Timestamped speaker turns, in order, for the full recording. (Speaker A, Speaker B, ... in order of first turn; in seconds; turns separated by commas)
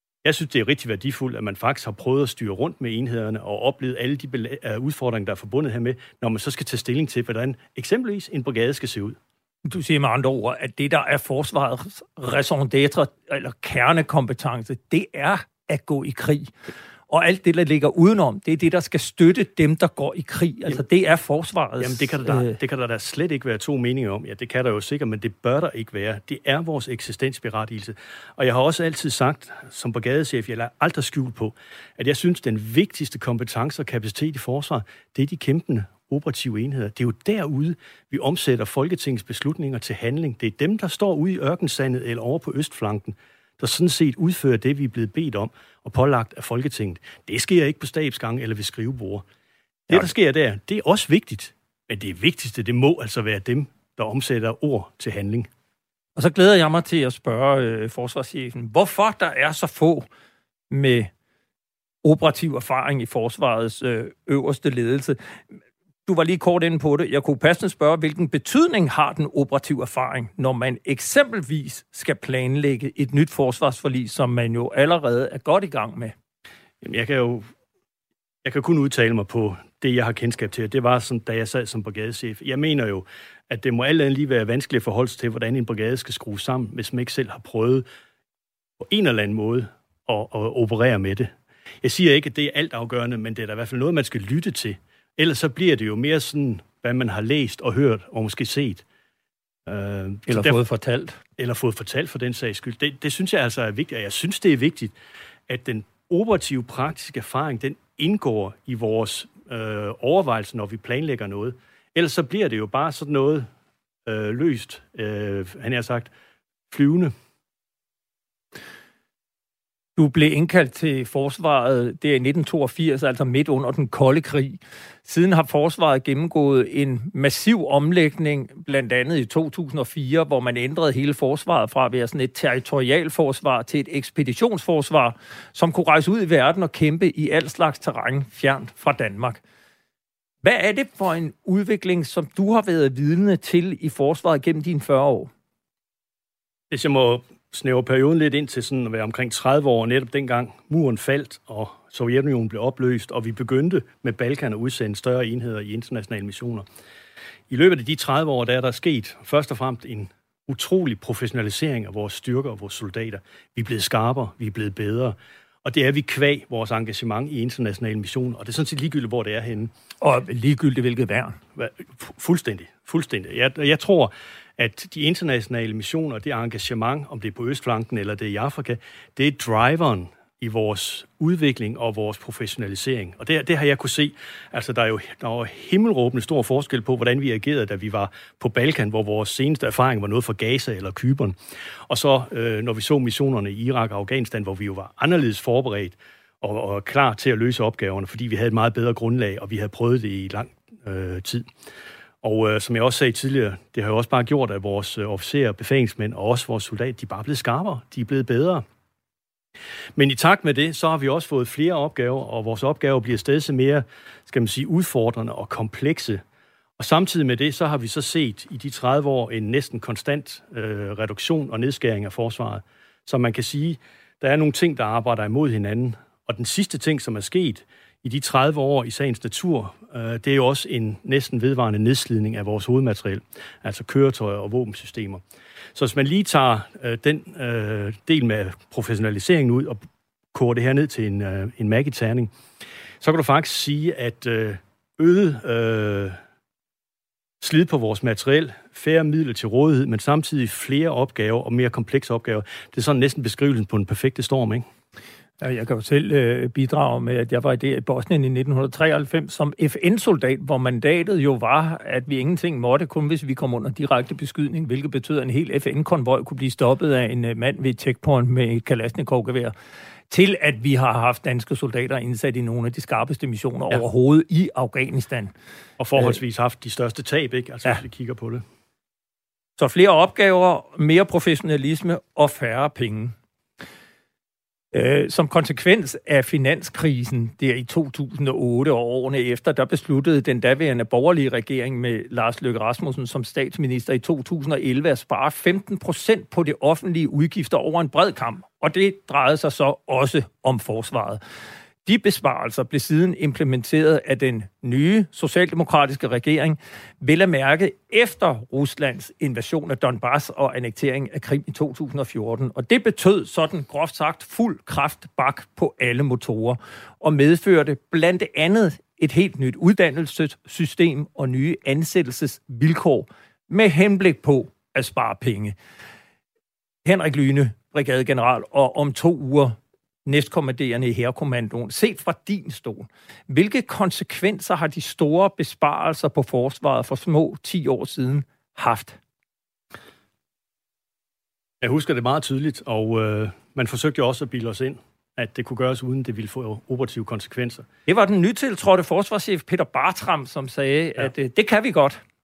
Speaker A: 0.2-9.2, Speaker B: 9.7-16.5, Speaker B: 17.1-22.6, Speaker A: 21.8-49.2, Speaker A: 49.9-55.5, Speaker B: 56.2-60.1, Speaker B: 60.7-61.1, Speaker B: 62.0-65.2, Speaker B: 66.1-76.1, Speaker A: 76.8-77.5, Speaker A: 78.4-87.8, Speaker A: 88.8-98.8, Speaker A: 99.7-100.6, Speaker B: 100.3-101.2, Speaker A: 101.4-104.9, Speaker A: 105.5-113.5, Speaker A: 114.1-116.1, Speaker A: 116.7-117.1, Speaker B: 120.0-139.4, Speaker B: 140.4-145.3, Speaker A: 146.7-156.7, Speaker A: 157.5-169.7, Speaker B: 170.0-171.4, Speaker A: 171.6-191.4, Speaker A: 191.9-201.5, Speaker A: 202.2-208.6, Speaker A: 210.0-216.2, Speaker A: 216.8-235.2, Speaker A: 235.8-242.3, Speaker A: 243.0-246.2, Speaker A: 247.4-254.7, Speaker B: 255.4-269.5, Speaker B: 270.1-275.3, Speaker A: 275.8-278.4, Speaker B: 279.6-283.1, Speaker B: 284.7-301.2, Speaker B: 301.9-325.6, Speaker B: 326.9-339.0, Speaker A: 341.6-347.7, Speaker B: 347.9-352.0